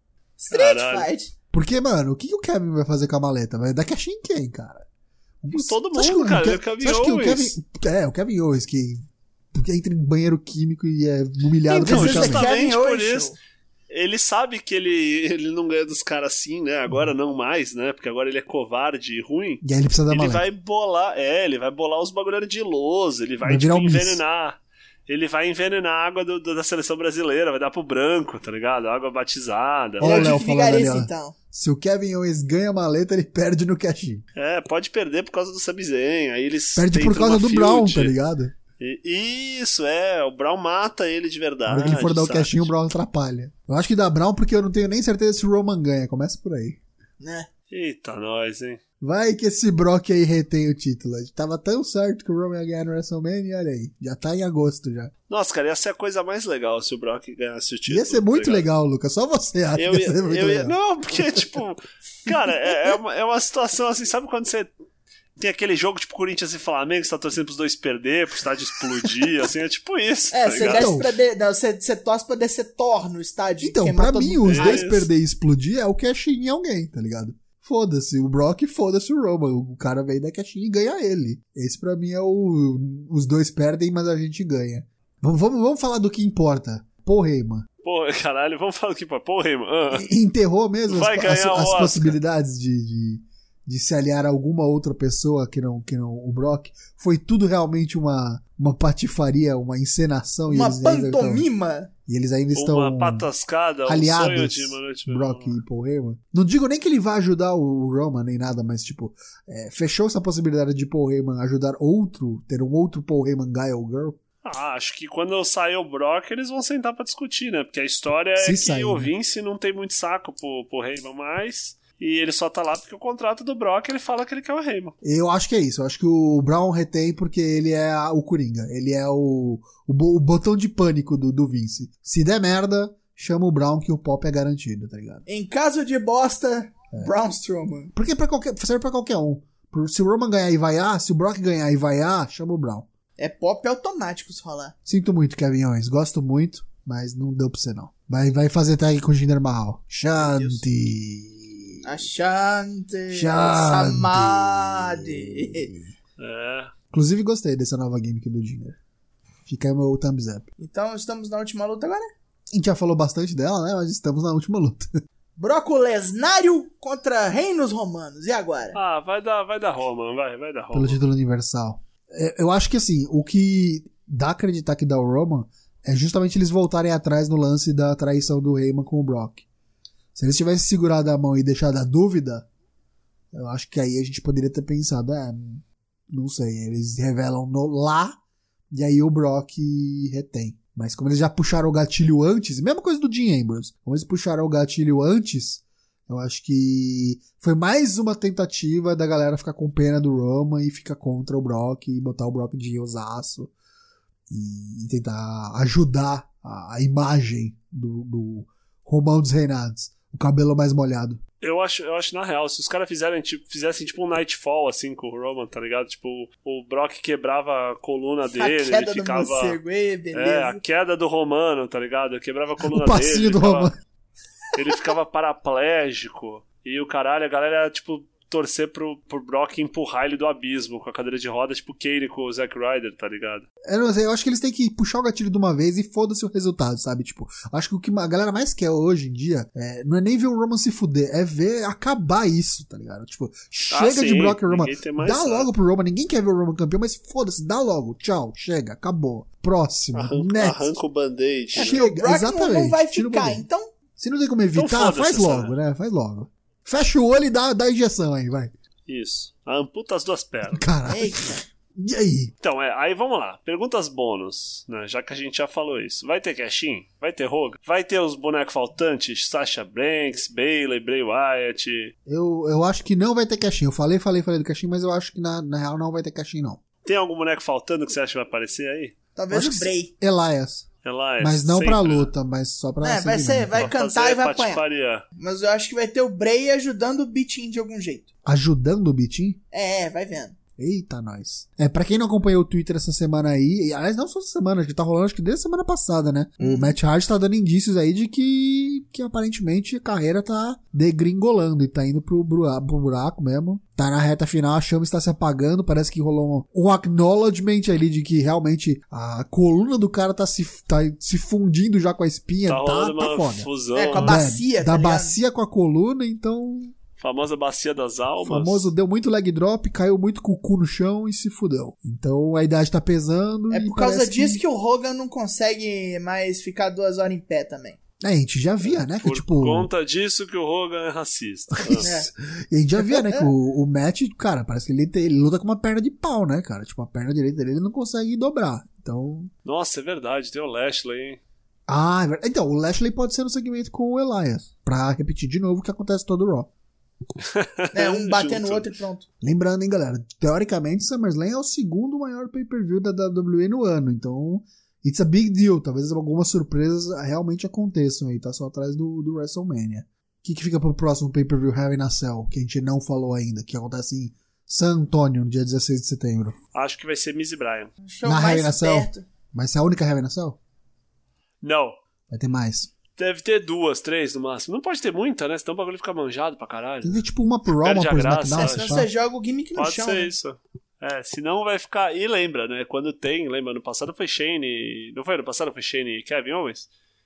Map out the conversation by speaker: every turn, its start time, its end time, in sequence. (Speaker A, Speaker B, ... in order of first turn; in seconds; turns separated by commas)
Speaker A: 0.4-1.3, Speaker B: 0.5-1.1, Speaker C: 1.5-4.9, Speaker C: 5.4-12.5, Speaker B: 5.5-7.6, Speaker B: 11.7-13.3, Speaker A: 11.8-13.4, Speaker B: 13.9-30.3, Speaker C: 19.6-20.4, Speaker C: 23.4-24.2, Speaker A: 30.0-31.4, Speaker C: 30.0-34.2, Speaker B: 34.4-38.2, Speaker C: 36.8-38.5, Speaker B: 38.8-42.7, Speaker C: 41.7-46.8, Speaker A: 47.2-47.5, Speaker B: 47.7-48.8, Speaker C: 49.0-55.1, Speaker B: 55.3-58.7, Speaker C: 57.9-60.8, Speaker B: 59.7-64.7, Speaker B: 65.4-71.0, Speaker A: 70.3-74.9, Speaker C: 70.6-71.1, Speaker C: 73.6-87.7, Speaker B: 74.5-75.1, Speaker B: 87.8-90.1, Speaker C: 89.9-101.5, Speaker B: 90.9-92.2, Speaker A: 100.5-101.9, Speaker C: 102.0-103.3, Speaker B: 102.5-105.6, Speaker C: 103.9-114.2, Speaker B: 114.4-125.0, Speaker C: 118.4-119.1, Speaker C: 125.0-135.2, Speaker A: 135.3-137.9, Speaker C: 137.9-142.9, Speaker A: 143.2-144.7, Speaker C: 144.9-152.0, Speaker A: 150.2-150.6, Speaker A: 151.8-155.7, Speaker C: 153.1-155.8, Speaker B: 156.2-156.7, Speaker C: 156.9-158.8, Speaker C: 159.5-160.4, Speaker A: 160.6-162.1, Speaker C: 162.5-164.9, Speaker A: 165.4-168.8, Speaker B: 168.7-171.0, Speaker C: 170.7-179.4, Speaker C: 180.1-182.5, Speaker C: 183.3-188.2, Speaker C: 188.7-203.5, Speaker C: 204.3-211.2, Speaker B: 211.4-219.6, Speaker A: 218.3-220.6, Speaker B: 220.1-223.7, Speaker C: 222.6-223.7, Speaker B: 224.5-233.4, Speaker C: 233.7-250.7, Speaker B: 243.7-245.5, Speaker B: 249.9-251.8, Speaker C: 251.5-253.4, Speaker A: 251.5-253.7, Speaker C: 254.0-258.5, Speaker B: 254.5-255.6, Speaker B: 258.9-260.6, Speaker C: 260.5-262.3, Speaker A: 260.9-261.4, Speaker B: 262.4-271.9, Speaker C: 272.1-276.6, Speaker B: 276.8-278.9, Speaker A: 279.2-279.9, Speaker C: 279.3-280.7, Speaker B: 280.8-282.1, Speaker C: 281.2-283.7, Speaker A: 282.8-284.6, Speaker B: 283.5-285.0, Speaker A: 285.2-288.1, Speaker C: 288.2-289.4, Speaker A: 289.5-290.4, Speaker C: 290.6-316.7, Speaker A: 296.4-296.8, Speaker B: 312.4-314.2, Speaker A: 313.7-315.2, Speaker B: 317.0-318.7, Speaker C: 318.2-324.4, Speaker A: 323.5-327.8, Speaker C: 328.0-329.7, Speaker B: 328.6-331.9, Speaker C: 331.6-339.3, Speaker A: 331.8-332.1, Speaker A: 332.8-333.3, Speaker B: 339.4-341.2, Speaker C: 341.7-346.5, Speaker B: 347.2-348.7, Speaker A: 347.7-349.1, Speaker C: 349.2-366.3, Speaker B: 366.5-367.7, Speaker A: 367.8-369.1, Speaker C: 368.1-370.4, Speaker B: 371.4-371.8, Speaker C: 372.1-372.7, Speaker B: 372.9-377.0, Speaker C: 376.8-378.9, Speaker B: 377.6-378.8, Speaker A: 378.3-380.1, Speaker B: 379.6-386.7